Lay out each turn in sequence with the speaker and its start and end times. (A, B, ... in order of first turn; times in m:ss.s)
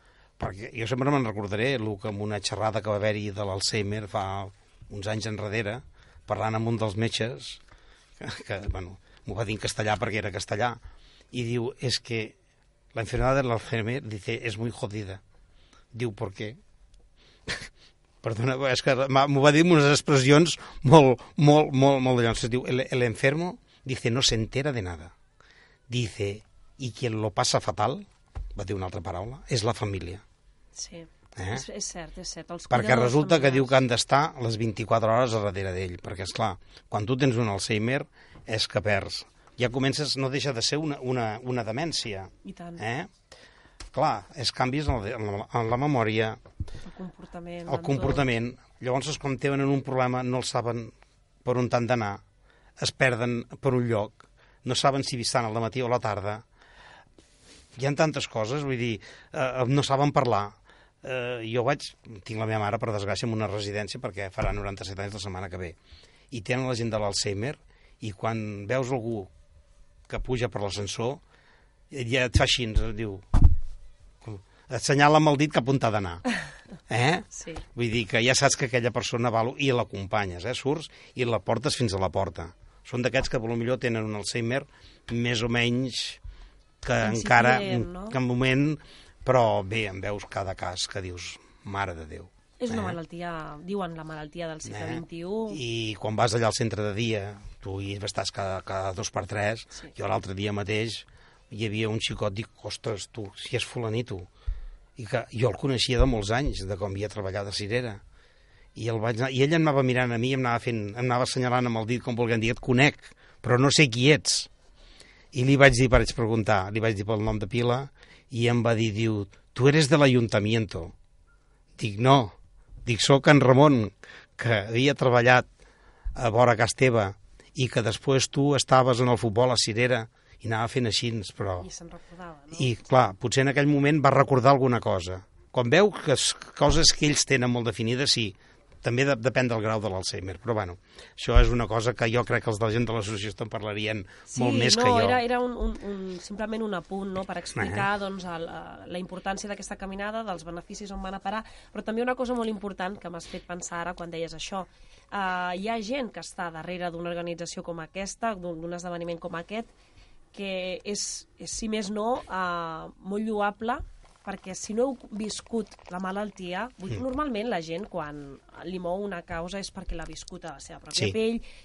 0:00.4-0:07.6 A
0:08.2-0:10.8 A
0:11.3-0:12.3 A
0:12.9-0:15.2 A
0:15.9-0:16.6 A
0:18.2-0:25.1 A
0:25.9-0:30.2 A
0:30.7-0:33.8 B
0:31.4-0:31.6 A
0:32.7-0:43.1 A
0:42.4-0:42.8 B
0:43.9-0:46.4 A
0:46.8-0:48.2 B
0:47.7-0:50.9 A
0:51.4-0:52.2 A
0:52.8-0:56.4 A
0:57.7-1:05.8 A
1:06.3-1:09.3 A
1:10.1-1:11.2 A
1:11.9-1:13.5 A
1:14.2-1:16.2 A
1:16.9-1:26.2 A
1:17.3-1:17.6 B
1:26.8-1:33.0 A
1:27.0-1:28.2 B
1:32.6-1:35.6 B
1:34.6-1:44.3 A
1:45.0-1:48.0 A
1:48.7-1:54.5 A
1:55.3-2:00.9 A
2:01.8-2:05.5 A
2:06.1-2:11.7 A
2:11.6-2:12.7 B
2:12.5-2:25.2 A
2:24.3-2:39.7 B
2:27.5-2:27.9 A
2:40.3-2:51.4 B